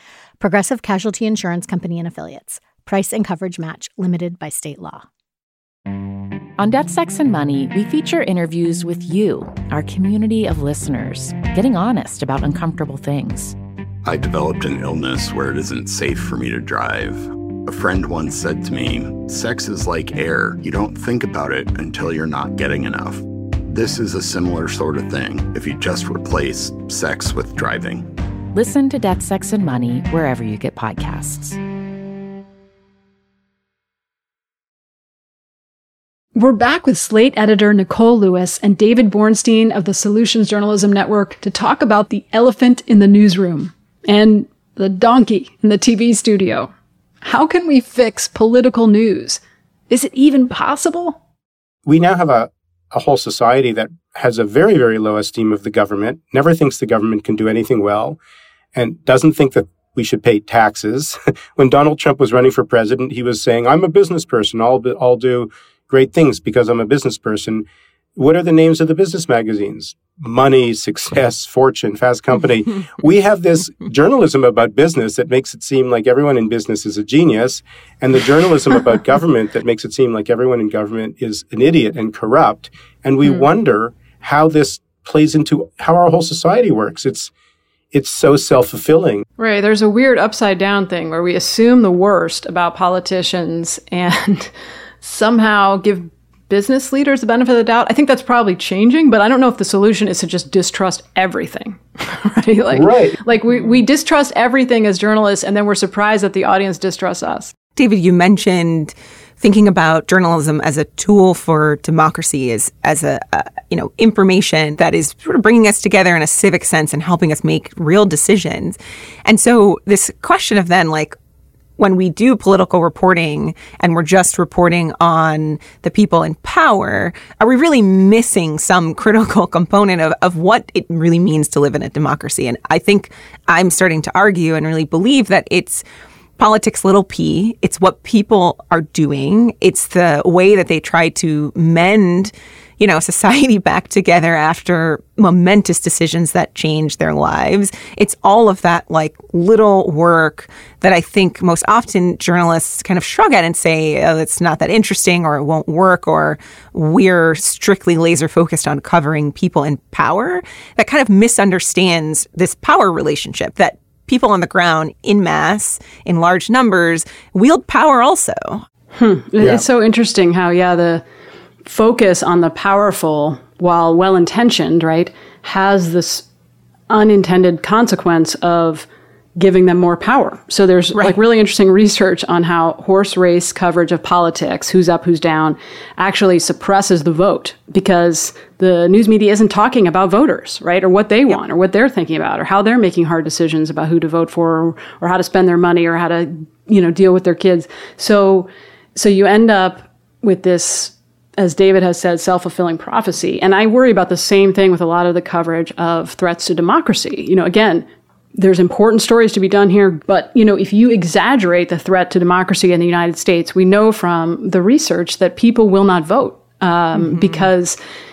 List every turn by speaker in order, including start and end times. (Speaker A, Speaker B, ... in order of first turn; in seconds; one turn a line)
Speaker A: 0.4-5.0
Speaker B: 6.6-13.6
Speaker C: 14.0-28.1
Speaker B: 28.5-31.6
Speaker D: 36.3-46.7
Speaker D: 47.2-51.2
Speaker E: 51.9-58.2
Speaker E: 58.7-87.3
Speaker E: 87.9-89.2
Speaker D: 89.4-107.5
Speaker E: 102.7-103.2
Speaker F: 107.8-121.2
Speaker F: 121.8-135.8
Speaker F: 136.4-168.6
Speaker D: 168.9-171.0
Speaker D: 171.6-176.2
Speaker D: 176.9-217.8
Speaker F: 216.9-217.5